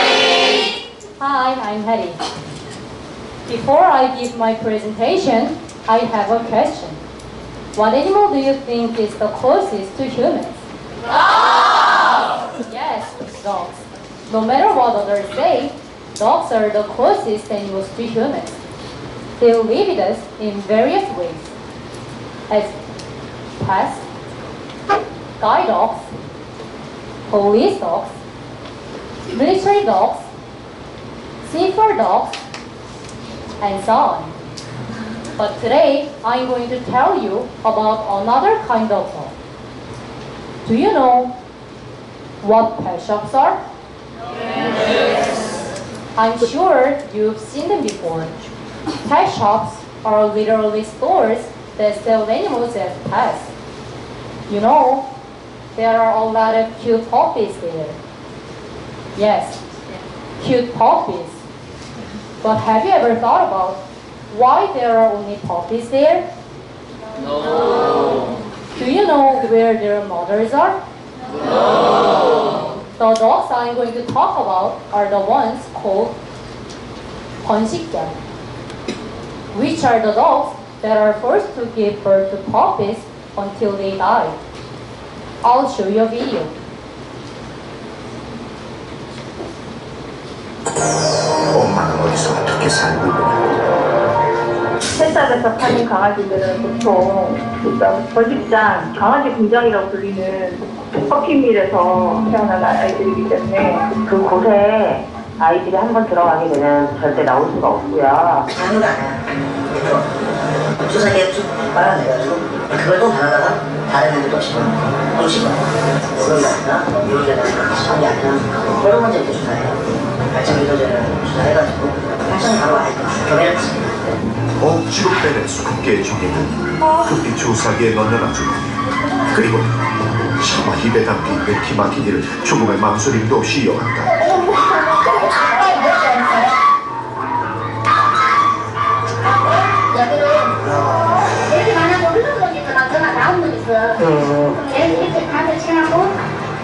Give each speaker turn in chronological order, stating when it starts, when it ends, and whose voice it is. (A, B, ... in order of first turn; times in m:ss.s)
0:01.2-0:02.2 A
0:03.5-0:07.0 A
0:07.8-0:10.6 A
0:12.6-0:18.6 A
0:19.4-0:21.5 A
0:23.6-0:24.0 A
0:25.4-0:26.1 A
0:27.3-0:28.1 A
0:29.3-0:30.3 A
0:31.4-0:32.4 A
0:33.6-0:34.4 A
0:35.4-0:39.3 A
0:40.6-0:41.3 A
0:42.4-0:43.6 A
0:46.2-0:48.3 A
0:49.0-0:53.5 A
0:54.5-0:55.1 A
0:55.8-0:58.0 A
0:59.2-0:59.6 A
1:00.4-1:01.4 A
1:02.4-1:06.3 A
1:08.8-1:10.8 A
1:12.8-1:16.2 A
1:17.4-1:18.1 A
1:19.5-1:24.4 A
1:25.4-1:26.6 A
1:31.5-1:33.6 B
1:34.9-1:43.9 C
1:44.1-1:48.5 D
1:48.6-1:49.2 E
1:49.7-1:50.1 E
1:50.8-1:55.6 E
1:56.1-2:04.1 E
2:04.6-2:09.7 B
2:10.4-2:14.2 B
2:14.2-2:16.5 F
2:19.9-2:26.2 F